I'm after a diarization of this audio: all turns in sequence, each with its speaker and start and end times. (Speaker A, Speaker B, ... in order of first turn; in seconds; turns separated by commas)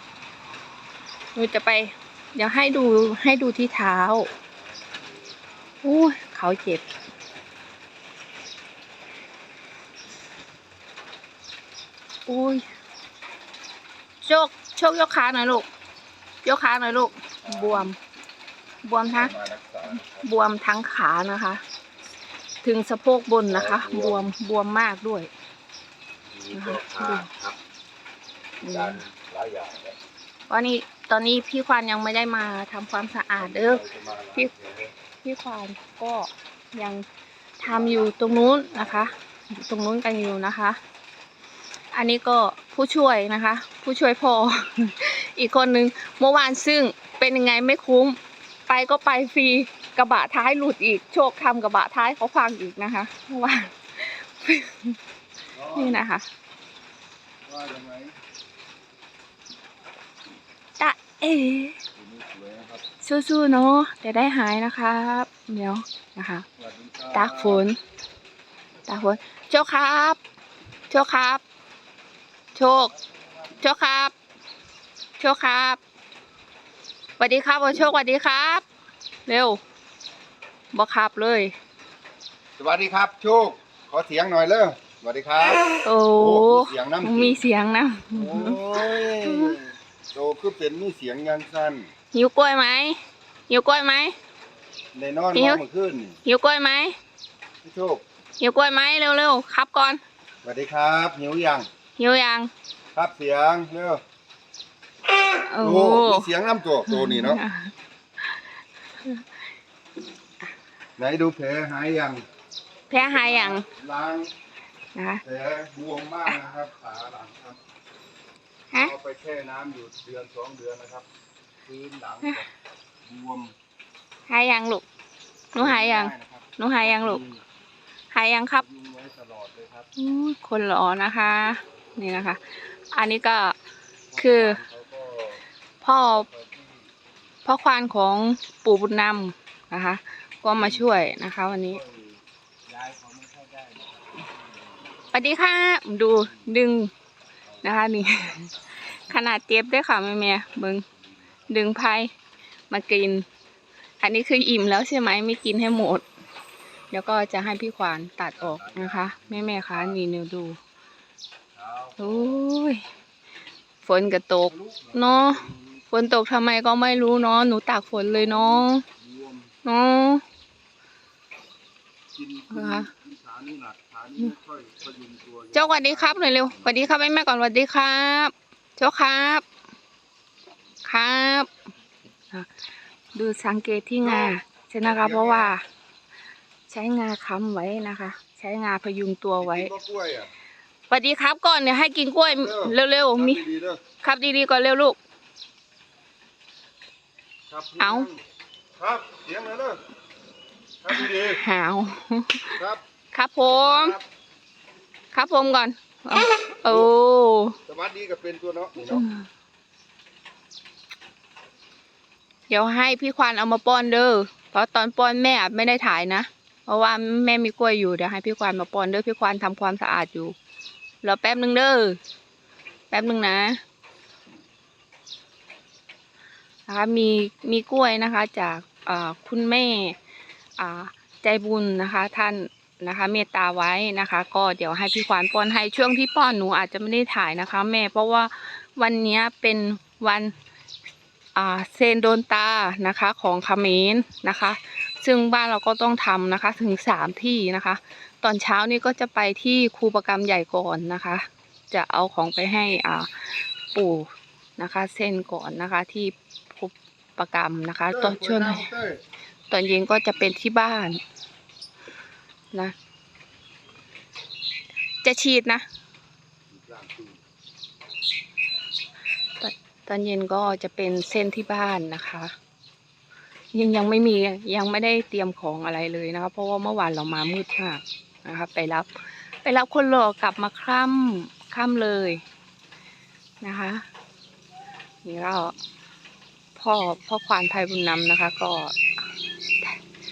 Speaker A: 1.3-4.3, Speaker B: 4.6-5.7, Speaker A: 5.8-6.8, Speaker A: 12.3-12.6, Speaker A: 14.2-15.7, Speaker A: 16.4-17.9, Speaker B: 17.2-17.9, Speaker A: 18.8-19.3, Speaker B: 19.1-20.2, Speaker A: 20.0-21.6, Speaker A: 22.6-25.3, Speaker B: 23.5-24.2, Speaker B: 26.3-27.6, Speaker A: 26.5-27.3, Speaker A: 28.6-29.0, Speaker B: 28.6-30.0, Speaker A: 30.5-33.8, Speaker B: 33.4-34.9, Speaker A: 35.2-37.0, Speaker B: 37.6-39.1, Speaker A: 37.6-40.8, Speaker A: 41.9-55.0, Speaker B: 55.5-56.0, Speaker A: 55.7-56.2, Speaker B: 57.5-58.1, Speaker A: 60.8-61.8, Speaker B: 62.0-62.8, Speaker A: 63.0-66.5, Speaker B: 66.6-67.7, Speaker A: 67.1-67.8, Speaker A: 68.9-70.2, Speaker A: 70.9-71.4, Speaker A: 72.5-72.9, Speaker A: 73.6-74.1, Speaker A: 75.2-75.8, Speaker A: 77.2-78.6, Speaker A: 79.3-79.6, Speaker A: 80.7-81.5, Speaker B: 82.6-87.4, Speaker A: 85.8-89.6, Speaker B: 88.1-91.9, Speaker A: 92.1-93.0, Speaker A: 93.5-94.1, Speaker B: 94.9-96.2, Speaker A: 95.3-95.6, Speaker A: 96.2-97.0, Speaker B: 97.6-98.0, Speaker A: 98.4-100.0, Speaker B: 100.4-101.7, Speaker A: 102.0-102.5, Speaker B: 102.9-104.0, Speaker A: 105.4-106.3, Speaker B: 105.6-107.4, Speaker A: 106.9-107.7, Speaker B: 111.0-112.2, Speaker A: 112.9-113.7, Speaker B: 112.9-114.3, Speaker A: 114.9-115.2, Speaker B: 115.2-117.6, Speaker B: 118.7-121.0, Speaker B: 121.6-122.5, Speaker B: 123.0-123.5, Speaker A: 124.3-124.8, Speaker A: 125.5-127.2, Speaker B: 125.5-127.4, Speaker A: 128.1-128.6, Speaker B: 128.5-129.9, Speaker A: 130.0-133.5, Speaker B: 134.1-135.4, Speaker A: 134.2-134.6, Speaker A: 135.8-136.3, Speaker B: 136.3-136.9, Speaker A: 137.4-141.8, Speaker B: 140.5-144.9, Speaker A: 145.1-146.9, Speaker B: 147.5-148.6, Speaker A: 147.6-150.8, Speaker A: 151.5-152.1, Speaker A: 152.7-153.2, Speaker A: 154.0-156.0, Speaker A: 156.9-160.6, Speaker B: 158.4-160.0, Speaker B: 161.5-162.4, Speaker A: 162.0-162.8, Speaker A: 163.8-168.8, Speaker B: 164.5-165.8, Speaker B: 167.9-169.5, Speaker A: 169.6-170.2, Speaker B: 172.1-176.8, Speaker A: 172.5-172.9, Speaker A: 175.5-179.4, Speaker A: 180.8-181.5, Speaker A: 183.1-185.6, Speaker B: 184.0-185.5, Speaker A: 186.7-189.7, Speaker B: 189.4-190.3, Speaker A: 190.9-193.4, Speaker B: 192.2-193.8, Speaker A: 194.0-195.0, Speaker B: 197.5-198.2, Speaker A: 197.8-198.1, Speaker B: 198.8-199.8, Speaker B: 200.8-201.4, Speaker A: 201.2-202.6, Speaker A: 203.1-203.9, Speaker B: 203.4-204.0, Speaker A: 205.1-207.6, Speaker B: 206.6-206.9, Speaker B: 207.7-209.1, Speaker A: 208.8-209.2, Speaker A: 212.5-220.3, Speaker A: 221.0-222.0, Speaker A: 222.9-223.6, Speaker A: 226.7-230.0, Speaker A: 230.6-240.3, Speaker A: 241.3-258.7, Speaker B: 257.9-259.0, Speaker A: 259.5-261.0, Speaker A: 265.0-265.6, Speaker B: 266.5-267.2, Speaker A: 269.4-272.3, Speaker A: 273.5-278.9, Speaker A: 279.4-282.2, Speaker A: 283.4-283.8, Speaker A: 285.0-285.5, Speaker A: 286.6-288.8